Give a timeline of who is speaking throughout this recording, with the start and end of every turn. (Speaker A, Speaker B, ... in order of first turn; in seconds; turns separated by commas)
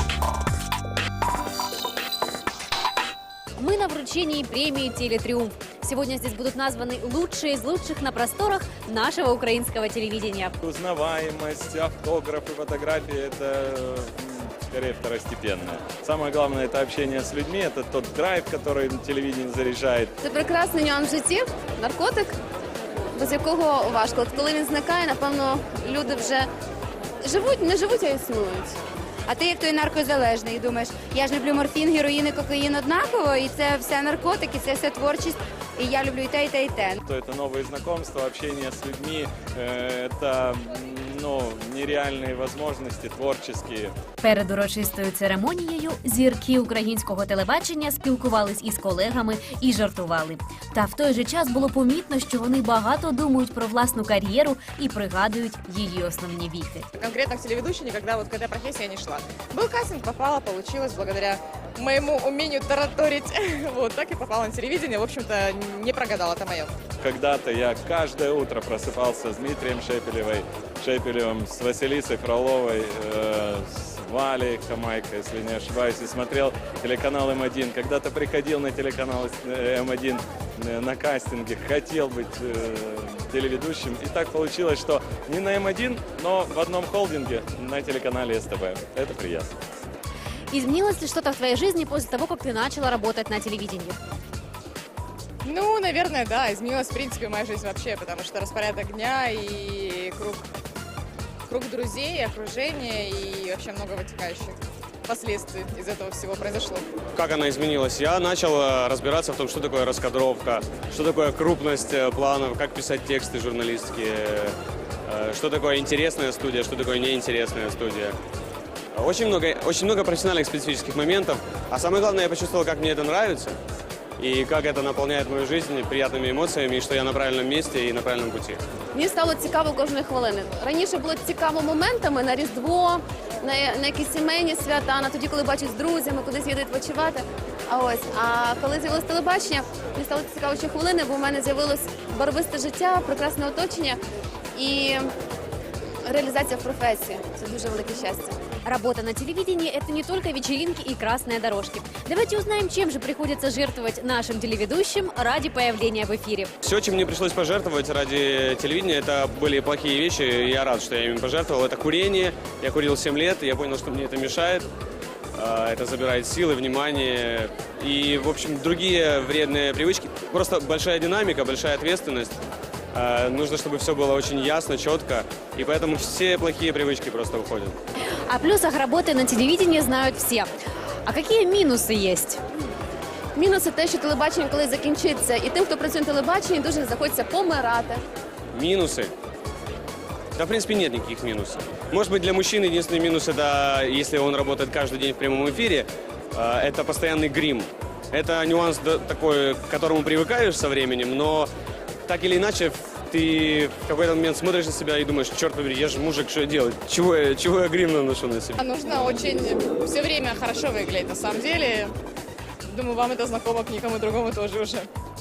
Speaker A: 3.5-10.6, Speaker B: 10.6-20.1, Speaker C: 20.2-22.4, Speaker C: 23.1-26.5, Speaker C: 27.2-28.8, Speaker D: 29.3-37.0, Speaker B: 37.0-43.9, Speaker A: 44.2-56.9, Speaker E: 57.0-66.7, Speaker B: 67.0-89.5, Speaker A: 90.5-94.0, Speaker E: 95.4-100.5, Speaker E: 101.5-106.9, Speaker F: 107.1-114.5, Speaker F: 115.1-118.2, Speaker F: 118.9-123.6, Speaker F: 124.2-128.6, Speaker C: 128.9-144.0, Speaker C: 144.5-145.1, Speaker C: 146.0-148.4, Speaker A: 148.6-156.5, Speaker F: 156.6-164.7, Speaker F: 165.3-172.3, Speaker F: 172.9-177.8, Speaker A: 178.3-180.5, Speaker A: 181.0-182.4, Speaker C: 183.3-188.0, Speaker F: 188.5-189.1, Speaker F: 190.3-201.5, Speaker F: 202.1-208.6, Speaker E: 208.6-211.9, Speaker E: 212.7-214.9